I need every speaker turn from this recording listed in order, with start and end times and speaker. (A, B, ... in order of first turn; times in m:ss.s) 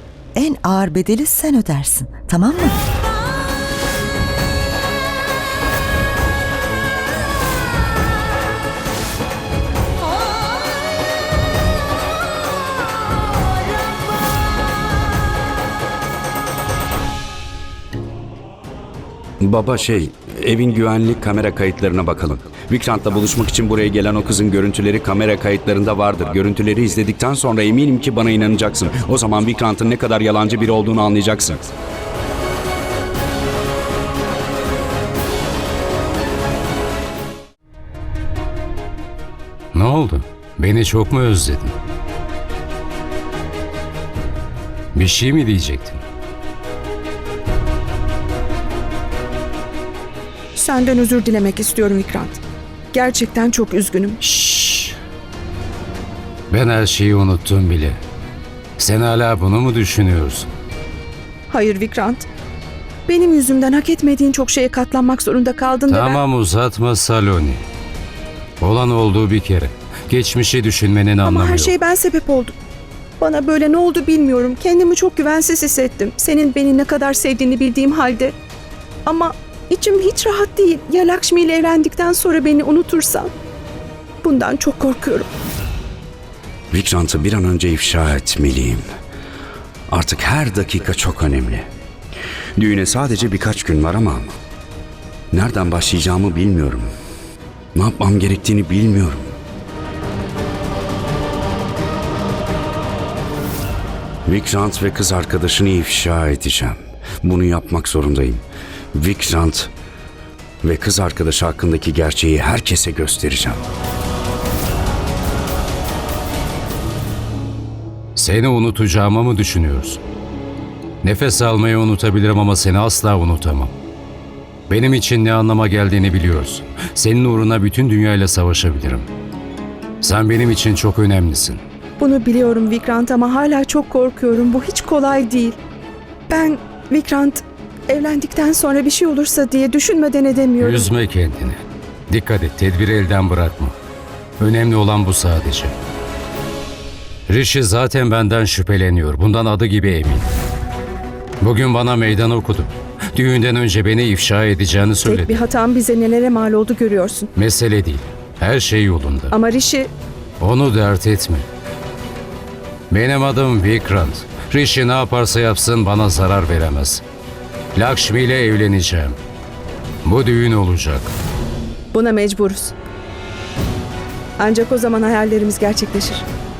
0:00.4-0:02.8 A
0:19.4-0:31.7 B
0:39.7-0:41.7 C
0:44.9-0:46.0 C
0:50.5-0:52.4 D
0:52.9-0:54.2 D
0:54.2-0:54.9 C
0:56.5-0:58.0 C
0:58.8-1:00.5 C
1:01.5-1:02.2 D
1:03.1-1:06.2 D
1:05.9-1:07.6 C
1:08.6-1:11.8 C
1:11.2-1:12.5 D
1:13.2-1:18.3 D
1:19.0-1:23.3 D
1:24.2-1:25.3 D
1:26.7-1:28.8 B
1:29.9-1:31.7 B
1:32.6-1:34.4 B
1:35.3-1:36.9 B
1:37.7-1:39.3 B
1:44.2-1:49.7 B
1:50.6-1:53.6 B
1:58.2-2:00.0 C
2:01.0-2:03.7 C
2:04.7-2:09.1 C
2:10.0-2:11.6 C
2:12.0-2:15.6 D
2:16.3-2:20.9 D
2:20.6-2:23.7 C
2:24.4-2:25.7 C
2:27.3-2:30.3 C
2:31.4-2:35.4 C
2:35.0-2:37.3 D
2:37.4-2:39.4 C
2:39.3-2:39.9 D
2:40.4-2:41.4 C
2:42.9-2:47.0 C
2:47.7-2:49.2 C
2:50.0-2:51.1 C
2:51.9-2:52.7 D
2:54.4-2:56.2 D